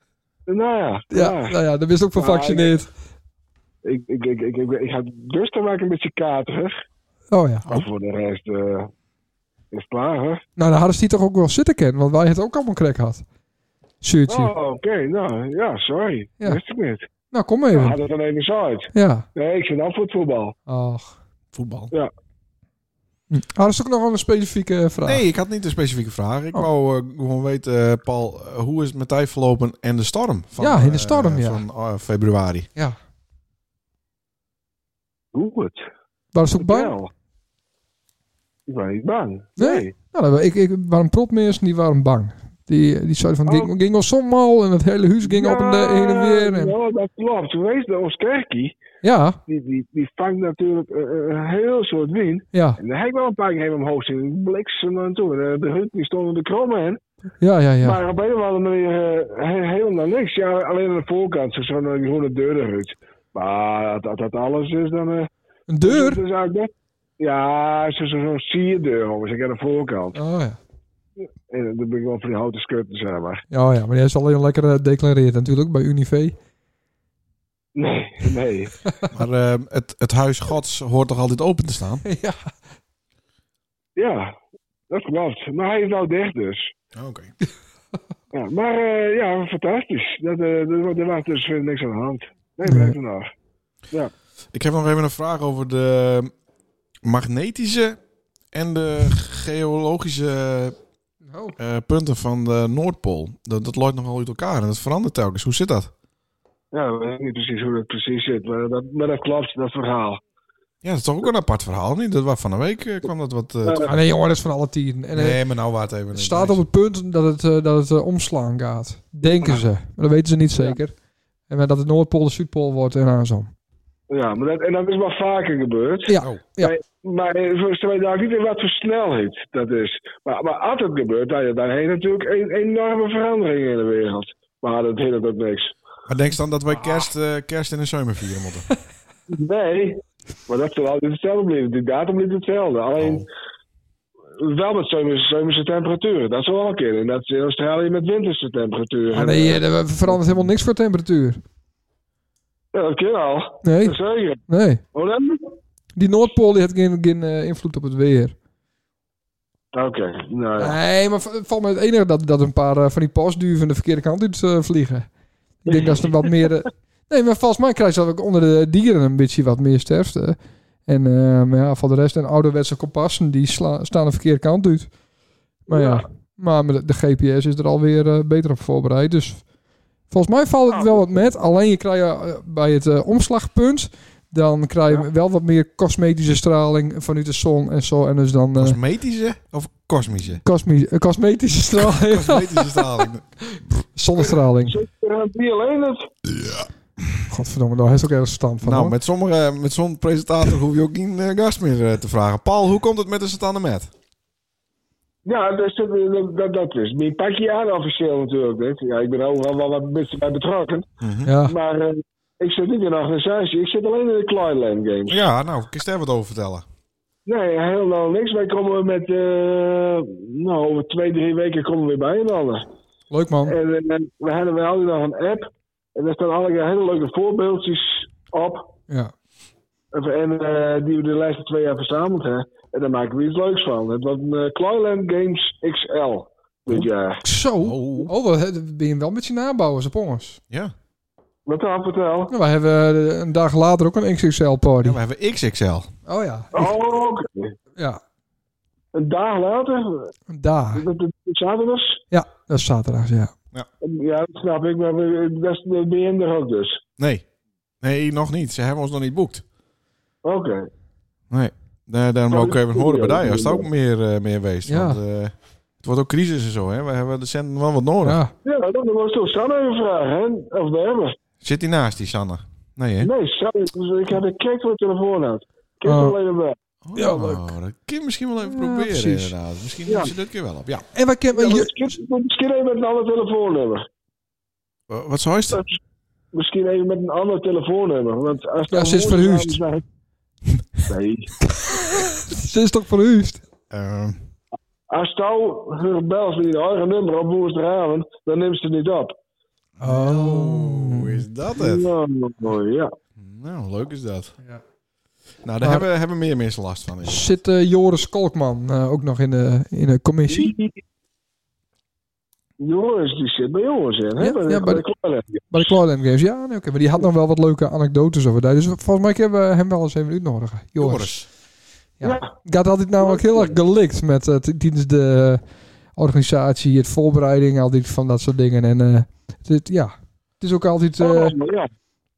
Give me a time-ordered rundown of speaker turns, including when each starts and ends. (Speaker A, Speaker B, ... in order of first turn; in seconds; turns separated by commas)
Speaker A: 0.5-1.6, Speaker B: 1.1-2.9, Speaker A: 2.1-2.8, Speaker A: 3.8-6.7, Speaker B: 7.3-7.8, Speaker A: 7.7-8.9, Speaker A: 9.7-10.4, Speaker B: 10.6-13.2, Speaker B: 14.0-14.5, Speaker A: 14.3-17.1, Speaker B: 17.3-18.0, Speaker A: 17.7-20.6, Speaker B: 18.9-19.3, Speaker B: 20.7-21.2, Speaker C: 21.5-21.9, Speaker B: 23.3-25.2, Speaker C: 25.1-32.7, Speaker B: 30.6-31.6, Speaker A: 35.3-35.8, Speaker B: 36.3-37.0, Speaker A: 36.6-37.1, Speaker A: 38.7-39.9, Speaker B: 39.6-46.8, Speaker A: 43.5-43.7, Speaker A: 45.2-48.8, Speaker B: 49.0-49.4, Speaker A: 49.5-57.0, Speaker B: 52.5-52.8, Speaker B: 57.4-58.0, Speaker A: 57.8-65.3, Speaker B: 65.7-66.2, Speaker A: 65.8-70.2, Speaker B: 70.1-70.6, Speaker A: 71.5-73.4, Speaker B: 73.5-76.3, Speaker A: 77.8-78.8, Speaker C: 79.1-82.0, Speaker B: 82.0-82.5, Speaker A: 84.0-84.3, Speaker A: 84.9-86.7, Speaker C: 86.9-87.3, Speaker A: 88.3-93.3, Speaker B: 92.7-93.0, Speaker C: 94.5-96.3, Speaker C: 97.0-98.0, Speaker C: 98.5-100.8, Speaker B: 101.3-101.6, Speaker C: 101.6-105.9, Speaker A: 106.7-110.2, Speaker C: 110.8-113.9, Speaker B: 113.8-115.4, Speaker C: 115.2-116.6, Speaker B: 116.1-121.0, Speaker A: 119.2-119.6, Speaker B: 121.5-123.5, Speaker A: 124.1-135.7, Speaker B: 126.1-126.7, Speaker C: 136.1-138.7, Speaker A: 139.3-143.3, Speaker C: 143.0-143.3, Speaker A: 144.4-149.6, Speaker B: 149.1-151.4, Speaker A: 152.7-154.4, Speaker B: 153.6-154.8, Speaker A: 154.9-155.5, Speaker B: 156.0-158.3, Speaker A: 159.7-160.8, Speaker B: 160.6-165.1, Speaker B: 165.6-174.9, Speaker B: 175.7-179.5, Speaker A: 175.7-176.0, Speaker B: 180.1-188.8, Speaker C: 188.6-190.4, Speaker B: 190.4-194.8, Speaker C: 191.8-193.4, Speaker A: 194.7-196.1, Speaker C: 196.3-196.7, Speaker B: 197.3-199.0, Speaker C: 198.6-203.9, Speaker A: 205.2-210.9, Speaker C: 211.0-211.3, Speaker B: 211.2-211.6, Speaker A: 211.4-215.2, Speaker C: 215.1-216.7, Speaker A: 217.3-222.7, Speaker B: 223.1-223.6, Speaker A: 223.4-228.7, Speaker A: 229.9-237.2, Speaker B: 237.2-240.4, Speaker C: 237.6-238.1, Speaker A: 241.5-242.3, Speaker B: 242.3-245.0, Speaker C: 244.8-245.9, Speaker B: 246.1-246.7, Speaker A: 246.5-247.6, Speaker A: 248.9-250.1, Speaker B: 250.3-250.9, Speaker A: 250.8-252.0, Speaker B: 252.1-253.3, Speaker A: 253.8-256.8, Speaker C: 257.0-257.2, Speaker C: 257.8-259.4, Speaker A: 260.2-260.7, Speaker C: 261.3-268.2, Speaker A: 262.3-263.7, Speaker B: 264.7-265.0, Speaker B: 268.0-268.3, Speaker A: 268.4-271.2, Speaker C: 271.4-273.1, Speaker A: 273.0-276.6, Speaker B: 275.9-276.2, Speaker C: 276.8-280.9, Speaker B: 276.9-277.5, Speaker B: 278.4-279.4, Speaker A: 279.9-280.1, Speaker B: 280.9-282.0, Speaker A: 281.3-283.9, Speaker C: 284.9-285.6, Speaker A: 285.5-285.8, Speaker A: 286.3-289.8, Speaker B: 288.7-289.6, Speaker A: 290.9-291.3, Speaker B: 291.5-293.4, Speaker C: 293.7-294.2, Speaker A: 294.9-299.1, Speaker C: 299.8-301.9, Speaker B: 299.8-301.2, Speaker A: 301.6-302.9, Speaker C: 303.2-304.4, Speaker C: 305.4-307.4, Speaker B: 305.6-305.9, Speaker B: 307.0-310.5, Speaker A: 310.3-310.8, Speaker A: 312.6-315.4, Speaker B: 314.2-314.8, Speaker B: 315.5-321.1, Speaker C: 320.8-321.3, Speaker B: 322.0-325.4, Speaker A: 322.0-322.3, Speaker A: 323.0-323.5, Speaker B: 326.0-331.4, Speaker A: 331.0-331.7